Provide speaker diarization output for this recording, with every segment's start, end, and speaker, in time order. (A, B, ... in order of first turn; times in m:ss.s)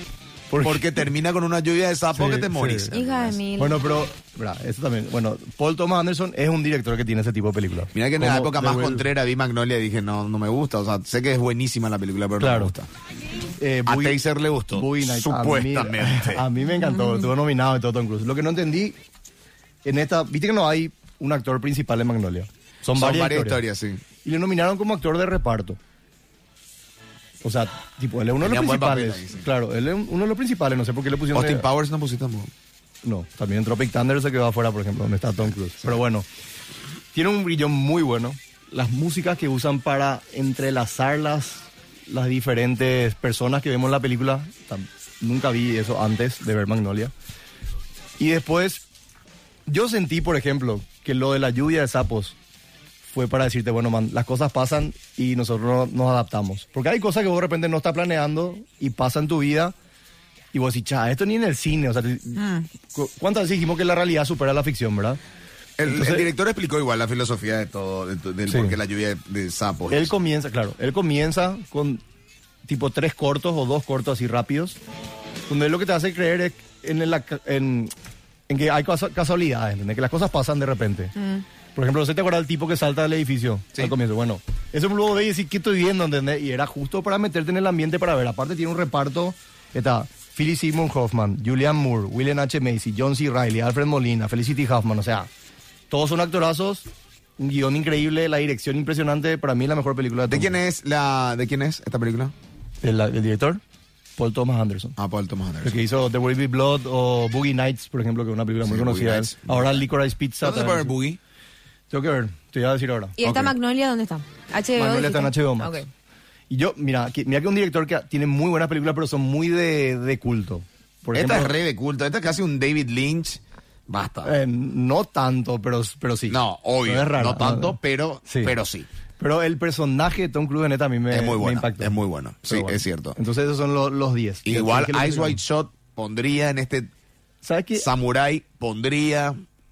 0:00.5-0:01.1 A
0:00.6-0:03.4 B
0:02.1-0:02.9 A
0:02.9-0:03.8 C
0:03.6-0:09.1 A
0:07.9-0:12.9 B
0:12.4-0:12.7 A
0:13.6-0:19.0 A
0:13.9-0:16.5 B
0:16.8-0:17.2 C
0:19.9-0:23.6 A
0:22.9-0:24.0 B
0:24.2-0:25.8 A
0:27.4-0:31.7 A
0:28.4-0:29.5 B
0:31.3-0:32.5 B
0:33.0-0:36.3 A
0:37.1-0:47.1 A
0:48.2-0:48.8 A
0:49.7-0:52.4 A
0:53.0-0:59.8 A
1:00.5-1:05.2 A
1:02.4-1:02.7 C
1:05.8-1:10.1 B
1:05.8-1:06.3 A
1:08.5-1:08.8 A
1:09.9-1:12.0 A
1:12.7-1:14.8 A
1:15.5-1:17.9 A
1:18.5-1:21.2 A
1:21.8-1:35.3 A
1:35.9-1:36.9 A
1:37.4-1:40.6 A
1:40.3-1:42.3 B
1:42.8-1:43.6 A
1:44.2-1:45.0 A
1:45.0-1:45.8 B
1:45.6-1:51.0 A
1:48.6-1:49.9 B
1:50.4-1:51.2 B
1:51.9-1:53.2 A
1:53.2-1:55.9 C
1:53.2-1:53.6 B
1:54.8-1:55.8 A
1:56.5-2:01.6 A
2:01.1-2:04.3 B
2:04.2-2:08.6 A
2:06.3-2:08.9 B
2:09.2-2:11.9 A
2:11.1-2:13.2 B
2:12.4-2:15.4 A
2:14.4-2:16.9 B
2:17.4-2:17.9 A
2:17.8-2:19.4 B